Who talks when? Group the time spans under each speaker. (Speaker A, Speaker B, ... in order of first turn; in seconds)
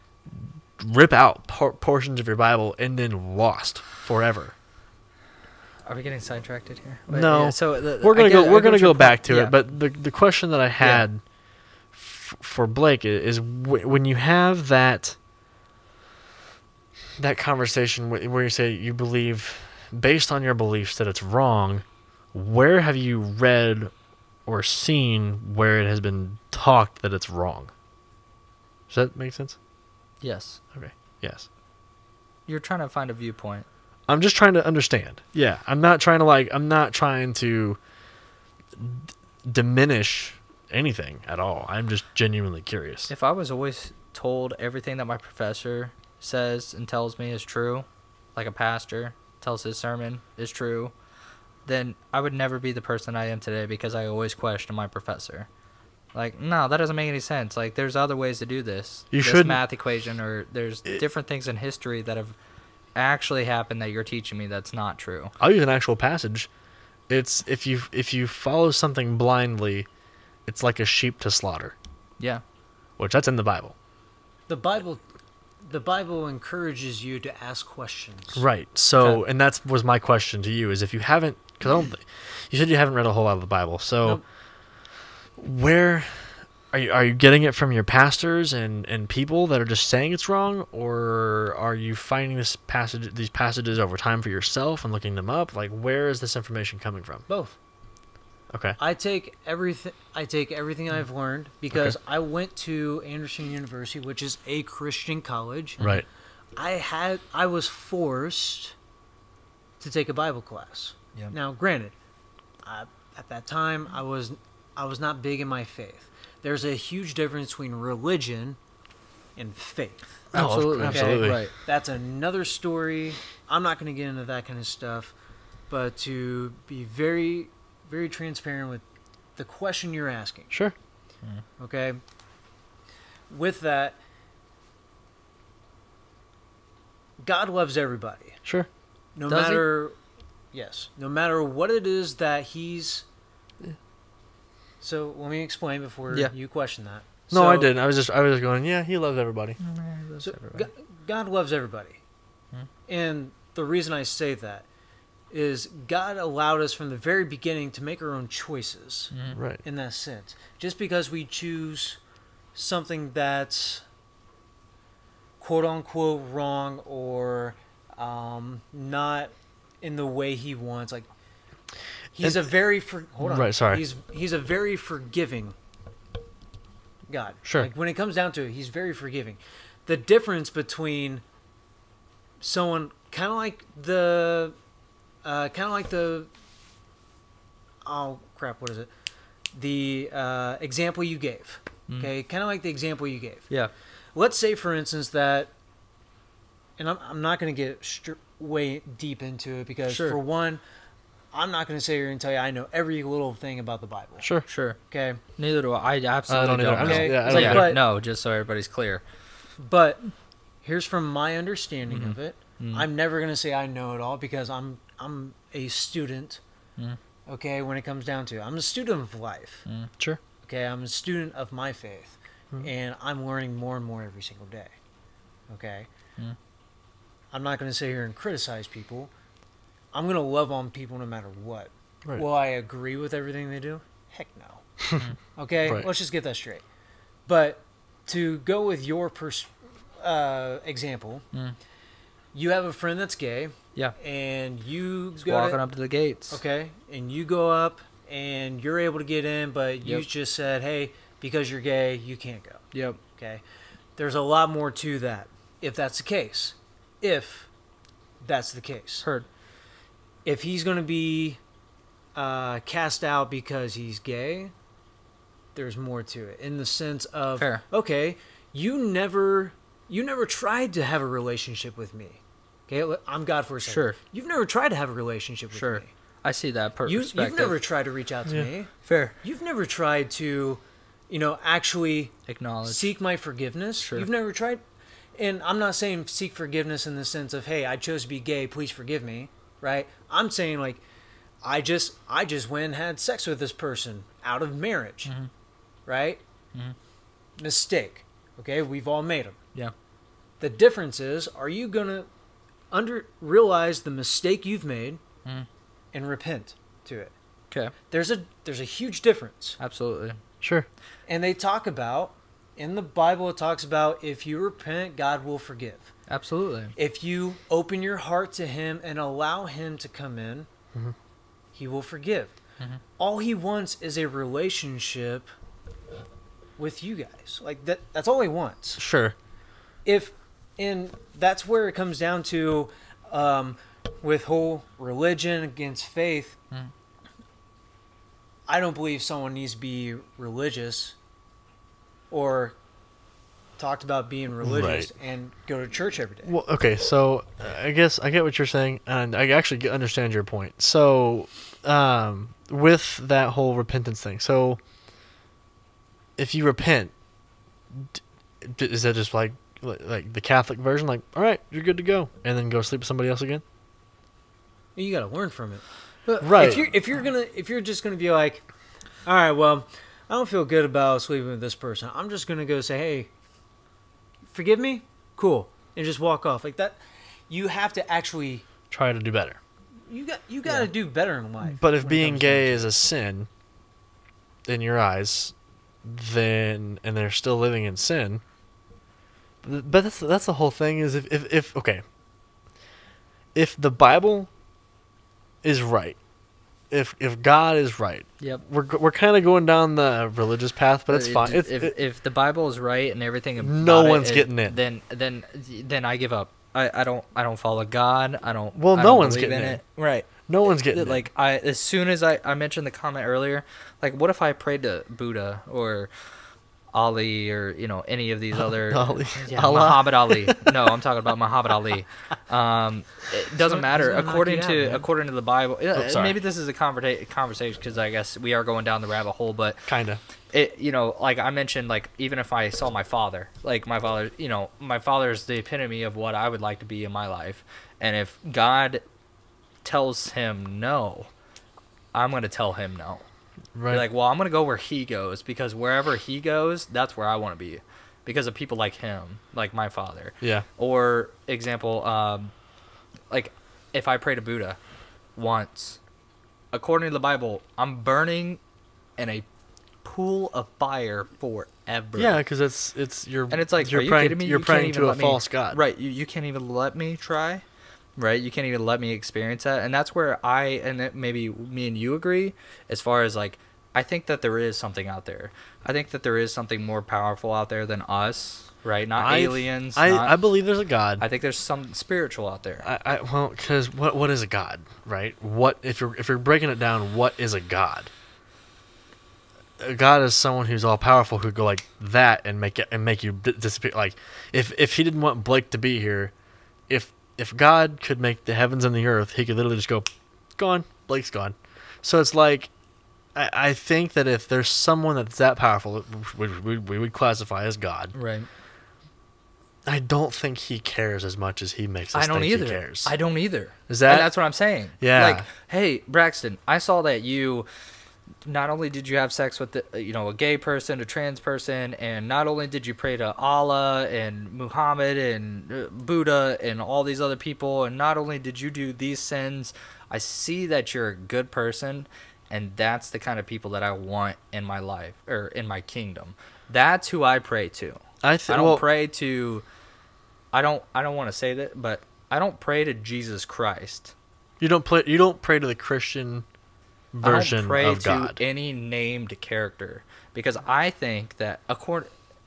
Speaker A: 0.3-4.5, 7.1-11.2, 11.9-15.2, 17.2-23.9, 24.5-27.7, 28.9-29.6, 30.7-31.5, 34.1-37.8, 38.8-43.1, 59.1-59.6, 65.4-66.5, 67.1-69.9, 70.5-71.8, 73.0-73.8, 78.4-84.2, 85.4-97.3, 98.5-98.8, 105.8-106.1, 120.3-121.5, 147.3-149.6, 159.3-159.6, 172.2-172.5, 173.2-173.8, 204.2-204.5, 206.3-207.8, 234.8-235.1, 310.4-310.7, 328.8-329.1, 344.4-344.9, 346.2-354.6, 356.2-356.9, 357.7-363.4, 366.2-366.6, 378.7-379.4, 381.4-383.3, 384.5-388.2, 389.4-391.8, 393.4-394.3, 395.4-396.0, 396.7-401.7, 403.4-404.6, 408.6-409.6, 410.2-411.0, 418.4-420.8, 425.8-426.2, 429.7-430.0, 443.6-443.8, 462.0-465.6, 479.0-481.0, 482.6-487.9, 489.6-496.1, 496.7-502.5, 503.1-507.9, 509.7-512.9, 513.7-514.1, 514.8-515.3, 538.0-538.6, 544.4-546.3, 546.9-548.2
Speaker B: 5.8-9.7, 10.8-11.1, 30.2-30.6, 32.5-33.7, 43.1-50.9, 51.7-55.5, 56.1-62.4, 63.0-65.3, 120.3-121.5, 139.3-139.6, 149.6-150.7, 159.1-159.4, 199.9-200.2, 204.5-204.8, 205.4-209.0, 211.9-212.9, 219.7-219.9, 245.3-246.4, 252.7-253.0, 267.4-267.6, 273.6-274.0, 275.5-277.6, 278.9-279.2, 282.3-282.9, 283.8-284.1, 309.6-310.2, 316.1-316.7, 400.9-415.9, 416.7-429.7, 430.3-438.8, 439.6-441.1, 441.9-443.1, 443.7-452.3, 453.1-454.6, 455.1-455.8, 456.5-458.4, 459.0-459.2, 459.8-462.2, 463.3-467.4, 468.0-480.2, 481.0-482.7, 507.9-508.3, 511.9-517.5, 518.2-539.4, 540.3-543.9, 547.0-551.9
Speaker C: 74.5-75.0, 75.6-78.4, 97.3-97.6, 98.8-105.8, 106.6-108.8, 109.8-111.9, 112.6-118.6, 119.4-120.3, 120.8-125.1, 125.7-128.8, 129.4-130.5, 131.6-132.0, 133.3-134.0, 137.2-138.4, 139.2-139.9, 140.5-143.1, 144.8-147.8, 150.2-152.0, 152.9-154.7, 155.3-159.1, 159.6-162.0, 162.6-163.8, 165.4-171.1, 172.1-175.6, 177.1-181.2, 182.4-184.6, 185.2-186.3, 187.8-188.9, 189.5-193.5, 194.2-195.5, 196.8-200.6, 201.3-204.3, 204.9-205.2, 206.8-207.8, 209.6-216.4, 217.3-219.7, 220.4-224.8, 225.5-225.9, 227.3-229.1, 229.9-234.7, 235.4-236.6, 237.3-241.2, 242.3-245.6, 246.3-253.4, 254.0-257.5, 258.2-259.1, 260.2-261.4, 262.1-264.5, 265.6-275.9, 276.9-282.1, 282.7-284.6, 285.1-290.8, 291.4-295.1, 295.9-296.2, 297.4-299.4, 300.4-302.1, 302.7-305.0, 305.9-307.1, 307.9-309.6, 311.1-315.9, 316.8-320.5, 321.5-322.4, 323.0-325.3, 326.6-328.8, 329.9-336.4, 338.5-341.0, 342.1-342.6, 343.6-346.3, 364.8-368.4, 369.1-373.1, 374.3-376.8, 377.3-378.4, 379.9-382.7, 423.4-424.9